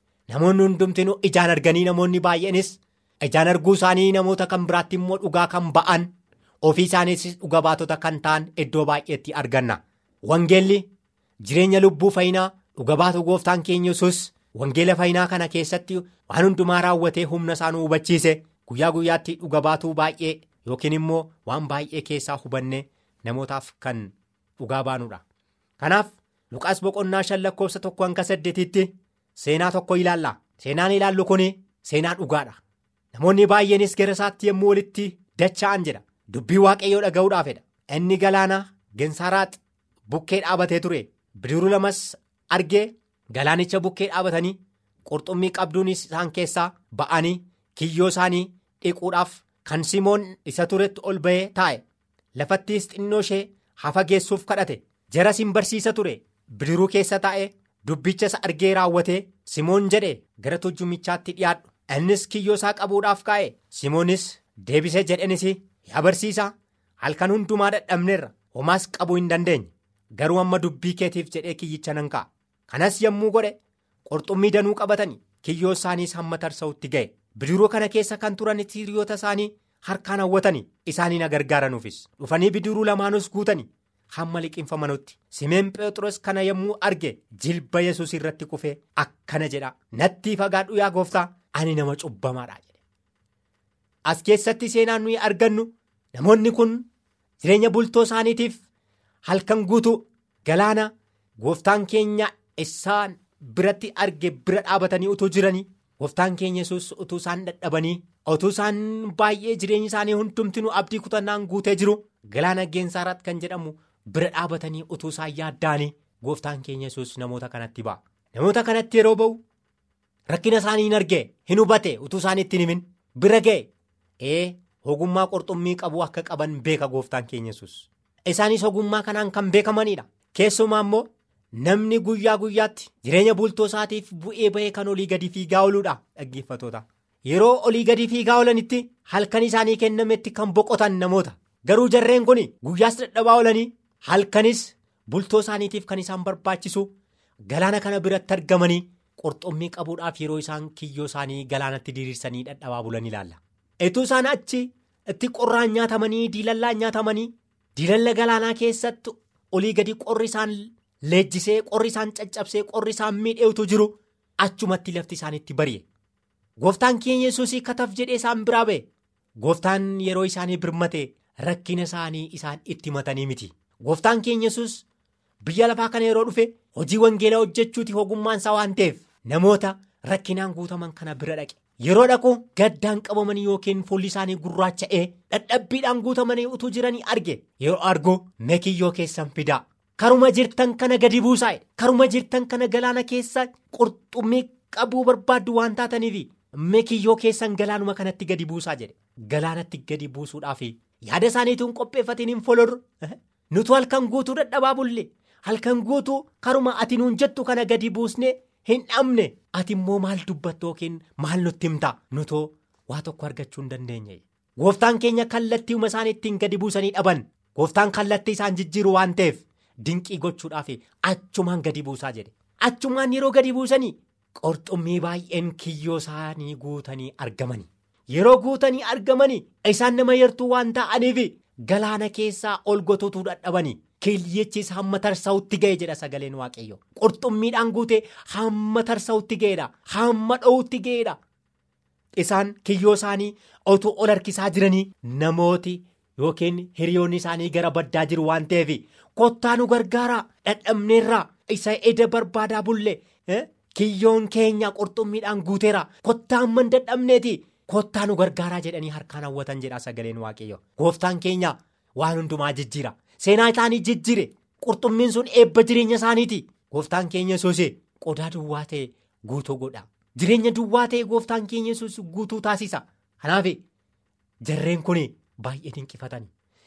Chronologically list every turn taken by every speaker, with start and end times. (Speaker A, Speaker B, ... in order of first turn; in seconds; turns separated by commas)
Speaker A: 0.3-6.1, Speaker A: 6.6-10.9, Speaker A: 11.4-25.2, Speaker A: 25.8-32.6, Speaker A: 33.1-39.6, Speaker A: 40.1-51.8, Speaker A: 52.4-92.8, Speaker A: 94.1-96.9, Speaker A: 97.4-98.6, Speaker A: 99.2-119.4, Speaker A: 120.3-123.7, Speaker A: 124.2-146.9, Speaker A: 147.5-165.8, Speaker A: 166.6-168.9, Speaker A: 169.4-174.8, Speaker A: 175.4-241.2, Speaker A: 242.2-273.6, Speaker A: 274.4-276.3